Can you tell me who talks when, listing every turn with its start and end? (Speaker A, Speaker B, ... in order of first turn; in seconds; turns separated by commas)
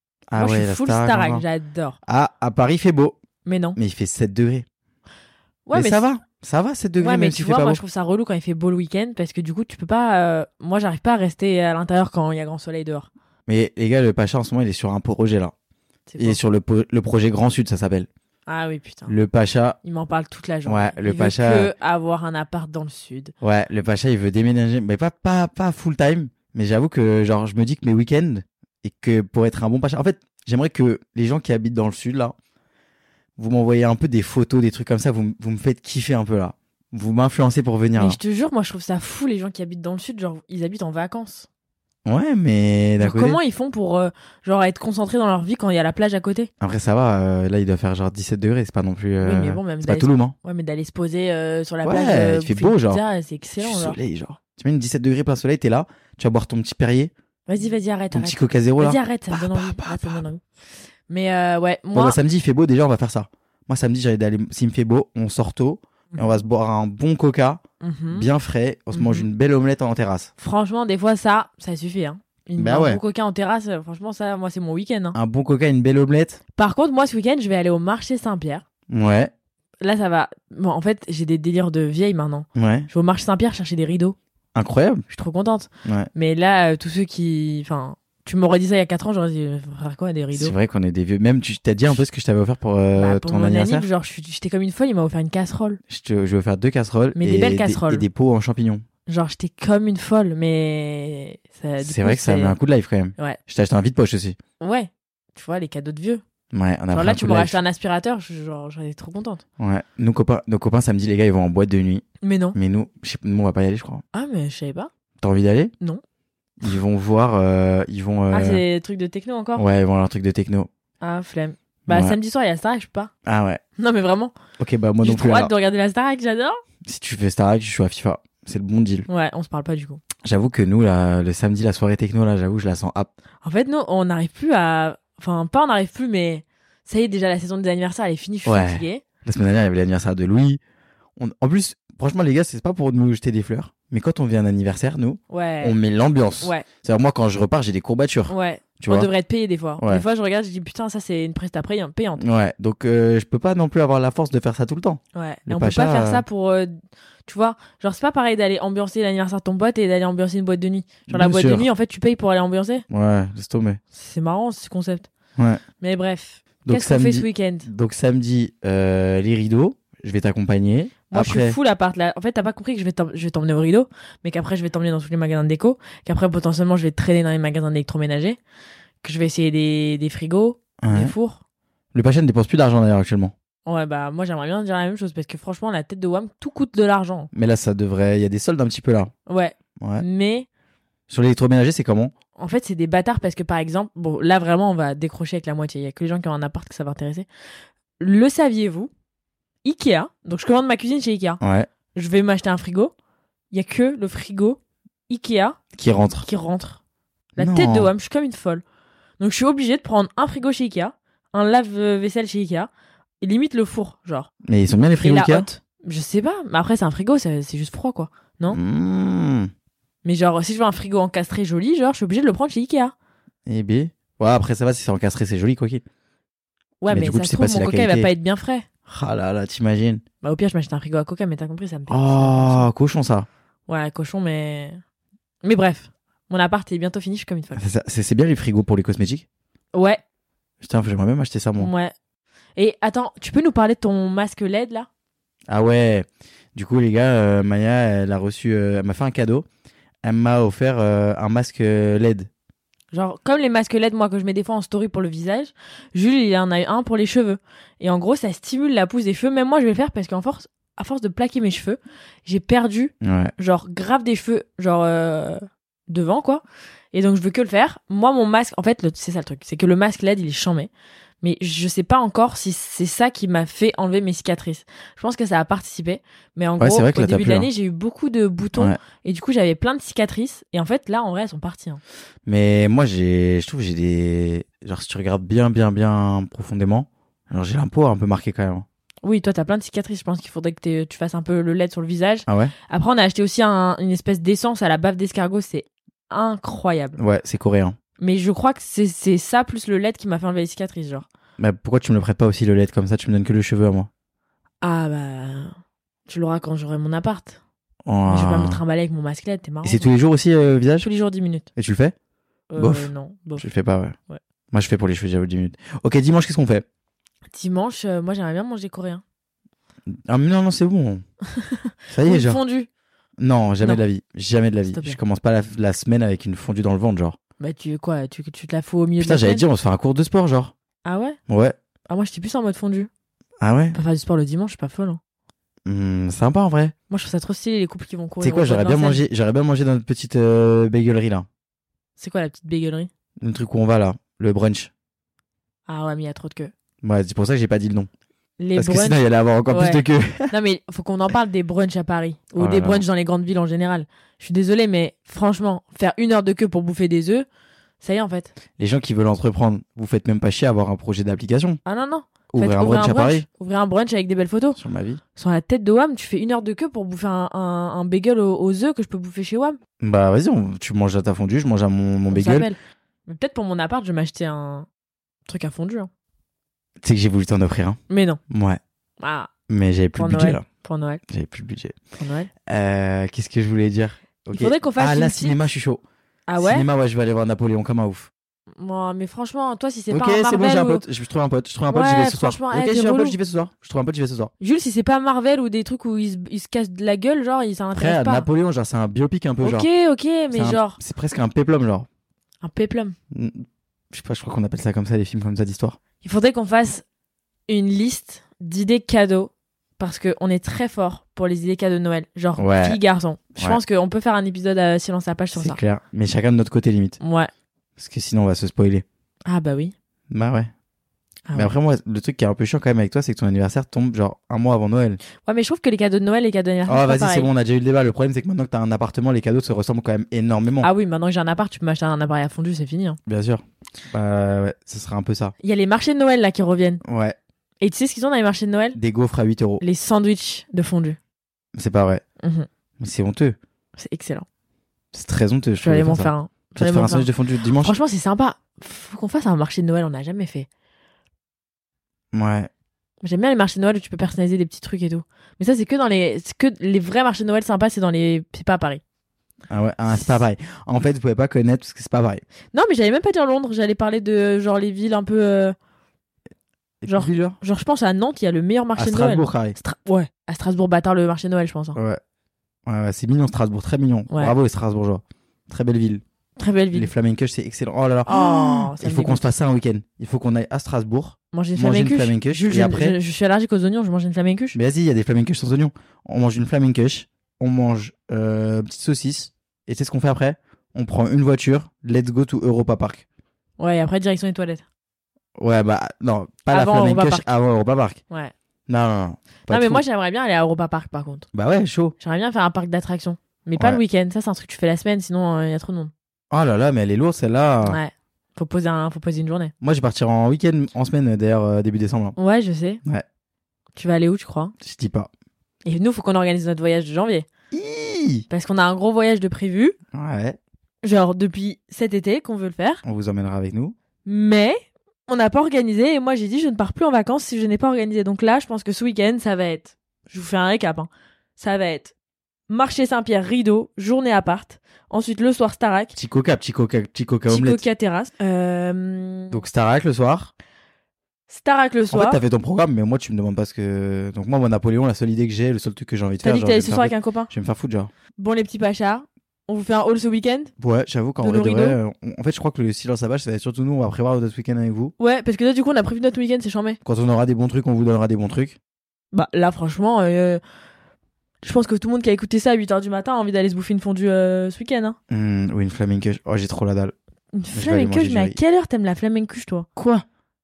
Speaker A: 0.3-1.4, Speaker B: 0.3-2.0, Speaker A: 2.0-3.2, Speaker B: 3.5-3.8, Speaker A: 3.8-4.7, Speaker B: 5.7-6.1, Speaker A: 5.7-7.8, Speaker B: 7.0-13.1, Speaker A: 13.5-15.5, Speaker B: 16.1-16.4, Speaker A: 16.2-18.1, Speaker B: 18.5-19.2, Speaker A: 19.1-19.8, Speaker B: 19.8-23.3, Speaker A: 20.6-21.7, Speaker A: 23.4-32.4, Speaker A: 33.4-38.2, Speaker B: 38.0-41.5, Speaker A: 42.0-43.4, Speaker B: 43.0-46.5, Speaker A: 46.6-50.4, Speaker B: 49.2-54.0, Speaker A: 51.8-53.0, Speaker A: 53.6-57.1, Speaker B: 57.5-60.4, Speaker A: 58.1-60.2, Speaker B: 61.1-62.2, Speaker A: 61.9-70.3, Speaker B: 67.8-68.3, Speaker B: 68.9-69.3, Speaker B: 70.4-75.2, Speaker A: 72.6-73.0, Speaker A: 75.2-76.4, Speaker B: 76.5-78.6, Speaker A: 78.9-79.3, Speaker B: 79.8-84.2, Speaker A: 82.6-82.9, Speaker A: 84.5-85.0, Speaker B: 85.1-90.6, Speaker A: 85.8-86.1, Speaker A: 90.3-93.9, Speaker B: 93.0-95.8, Speaker A: 95.9-98.8, Speaker B: 97.2-98.1, Speaker B: 99.1-102.6, Speaker A: 101.8-104.4, Speaker B: 104.6-106.2, Speaker A: 106.5-107.6, Speaker B: 106.9-109.4, Speaker A: 109.6-114.0, Speaker B: 112.2-112.6, Speaker B: 114.1-114.9, Speaker A: 115.2-115.7, Speaker A: 116.6-118.6, Speaker B: 118.3-119.7, Speaker A: 119.6-120.7, Speaker B: 121.0-123.1, Speaker A: 121.9-122.2, Speaker A: 123.3-123.6, Speaker B: 123.8-124.4, Speaker A: 124.6-125.5, Speaker B: 125.0-126.6, Speaker A: 126.8-129.1, Speaker B: 129.1-130.0, Speaker A: 130.2-133.1, Speaker B: 133.4-139.0, Speaker A: 138.4-140.6, Speaker A: 141.2-149.1, Speaker B: 145.3-145.8, Speaker B: 146.4-146.7, Speaker B: 148.3-152.3, Speaker A: 149.8-150.1, Speaker A: 152.2-156.2, Speaker B: 155.1-162.8, Speaker A: 161.1-161.7, Speaker A: 162.9-163.8, Speaker B: 163.9-165.1, Speaker A: 165.4-165.6, Speaker B: 165.8-167.7, Speaker A: 166.7-171.6, Speaker B: 171.1-178.4, Speaker B: 179.0-181.4, Speaker A: 180.8-181.1, Speaker A: 181.9-183.3, Speaker B: 183.7-187.3, Speaker A: 187.3-189.1, Speaker B: 189.3-190.5, Speaker A: 189.8-190.1, Speaker A: 191.1-192.1, Speaker B: 192.4-197.3, Speaker B: 198.0-198.9, Speaker B: 199.6-201.4, Speaker A: 201.4-201.7, Speaker B: 201.9-202.9, Speaker B: 203.5-205.6, Speaker A: 205.7-206.3, Speaker B: 206.2-206.8, Speaker A: 207.4-207.9, Speaker B: 207.4-208.6, Speaker B: 209.2-214.3, Speaker A: 214.4-215.5, Speaker B: 214.9-218.6, Speaker A: 218.5-219.5, Speaker B: 220.0-222.9, Speaker A: 223.5-225.8, Speaker B: 226.8-228.7, Speaker A: 226.9-228.1, Speaker A: 228.9-230.0, Speaker B: 230.2-232.7, Speaker A: 231.9-233.3, Speaker B: 233.7-234.8, Speaker B: 235.4-237.6, Speaker A: 237.6-239.2, Speaker B: 239.7-240.0, Speaker A: 240.6-241.7, Speaker B: 241.6-241.9, Speaker B: 242.6-244.9, Speaker A: 245.5-249.5, Speaker A: 250.0-252.3, Speaker B: 252.9-281.8, Speaker A: 263.0-263.3, Speaker A: 276.6-277.5, Speaker A: 282.3-288.7, Speaker B: 289.0-297.0, Speaker A: 292.3-292.5, Speaker A: 297.0-297.8, Speaker B: 298.0-301.1, Speaker A: 301.4-303.9, Speaker B: 304.6-305.5, Speaker B: 306.1-307.4, Speaker A: 307.9-308.6, Speaker B: 308.1-309.9, Speaker A: 309.6-310.9, Speaker B: 310.8-311.5, Speaker A: 311.6-311.9, Speaker B: 312.5-313.5, Speaker A: 312.6-313.9, Speaker A: 314.5-316.6, Speaker B: 317.3-319.0, Speaker A: 319.9-321.0, Speaker B: 321.5-322.7, Speaker A: 321.9-322.4, Speaker A: 323.2-327.2, Speaker B: 323.6-323.9, Speaker B: 324.7-325.0, Speaker B: 327.4-329.4, Speaker A: 329.0-330.5, Speaker B: 330.8-331.2, Speaker A: 331.3-331.6, Speaker B: 331.9-332.9, Speaker A: 333.4-333.8, Speaker B: 333.7-335.0, Speaker A: 335.7-336.7, Speaker B: 336.9-339.1, Speaker A: 338.2-341.3, Speaker B: 342.0-342.9, Speaker A: 343.2-344.7, Speaker B: 345.7-346.5, Speaker A: 346.8-347.9, Speaker B: 348.4-357.3, Speaker A: 348.5-350.4, Speaker A: 352.4-352.9, Speaker B: 357.8-358.3, Speaker A: 358.6-361.6, Speaker B: 361.7-364.6, Speaker A: 362.3-363.2, Speaker A: 364.6-365.0, Speaker B: 365.1-369.6, Speaker A: 369.8-372.5, Speaker B: 372.1-374.7, Speaker B: 375.2-375.9, Speaker A: 376.8-377.8, Speaker B: 377.9-378.2, Speaker A: 378.3-378.6, Speaker B: 379.0-379.3, Speaker A: 379.5-380.4, Speaker B: 379.9-381.0, Speaker A: 381.1-381.8, Speaker B: 382.0-382.3, Speaker A: 382.5-385.8, Speaker B: 384.3-385.4, Speaker B: 386.3-386.7, Speaker A: 386.4-388.1, Speaker B: 388.6-390.9, Speaker A: 389.9-394.3, Speaker B: 391.7-393.2, Speaker B: 394.4-398.3, Speaker A: 397.7-399.7, Speaker B: 399.4-400.8, Speaker A: 400.3-401.9, Speaker B: 402.4-403.0, Speaker A: 403.1-405.8, Speaker B: 406.0-406.8, Speaker B: 407.5-415.6, Speaker A: 412.4-412.8, Speaker A: 415.4-417.0, Speaker B: 417.0-417.3, Speaker A: 417.8-418.8, Speaker B: 419.3-419.7, Speaker A: 420.1-420.5, Speaker B: 421.3-421.5, Speaker A: 421.3-425.0, Speaker B: 425.2-427.3, Speaker A: 426.7-430.7, Speaker B: 430.6-433.0, Speaker A: 433.1-435.3, Speaker B: 435.4-436.8, Speaker A: 436.9-437.2, Speaker B: 437.6-438.8, Speaker A: 438.8-439.6, Speaker B: 439.6-441.0, Speaker A: 441.6-442.0, Speaker B: 442.2-442.5, Speaker A: 442.8-443.4, Speaker B: 443.8-444.3, Speaker A: 444.9-447.8, Speaker B: 445.6-450.5, Speaker A: 452.1-452.5, Speaker B: 453.0-458.8, Speaker A: 459.5-462.2, Speaker B: 462.5-465.6, Speaker A: 466.8-467.4, Speaker B: 466.9-471.8, Speaker A: 468.8-469.6, Speaker A: 472.7-476.0, Speaker B: 474.1-474.4, Speaker B: 476.4-476.9, Speaker A: 476.7-483.0, Speaker B: 478.1-479.3, Speaker B: 481.3-484.6, Speaker A: 484.5-493.1, Speaker B: 493.6-494.6, Speaker A: 495.4-498.0, Speaker B: 496.5-497.3, Speaker A: 498.7-499.8, Speaker B: 499.5-501.3, Speaker A: 501.3-502.0, Speaker B: 502.0-505.9, Speaker A: 503.6-503.8, Speaker A: 506.3-507.8, Speaker B: 507.6-509.5, Speaker A: 509.6-512.2, Speaker B: 512.2-512.8, Speaker B: 513.8-514.5, Speaker A: 514.6-515.1, Speaker B: 515.6-517.3, Speaker A: 517.5-518.3, Speaker B: 518.3-519.8, Speaker A: 519.9-520.4, Speaker B: 520.8-522.8, Speaker A: 522.8-523.8, Speaker B: 524.0-531.9, Speaker B: 532.5-536.0, Speaker A: 536.0-537.6, Speaker B: 537.3-539.4, Speaker A: 539.3-540.3, Speaker B: 541.3-542.2, Speaker A: 541.9-547.9, Speaker B: 546.2-547.3, Speaker B: 548.2-550.5, Speaker A: 550.6-554.9, Speaker B: 551.2-551.8, Speaker B: 555.0-556.8, Speaker A: 556.9-558.6, Speaker B: 559.1-560.4, Speaker B: 561.4-565.0, Speaker A: 565.1-566.9, Speaker B: 567.3-569.7, Speaker A: 567.5-568.4, Speaker A: 569.8-570.0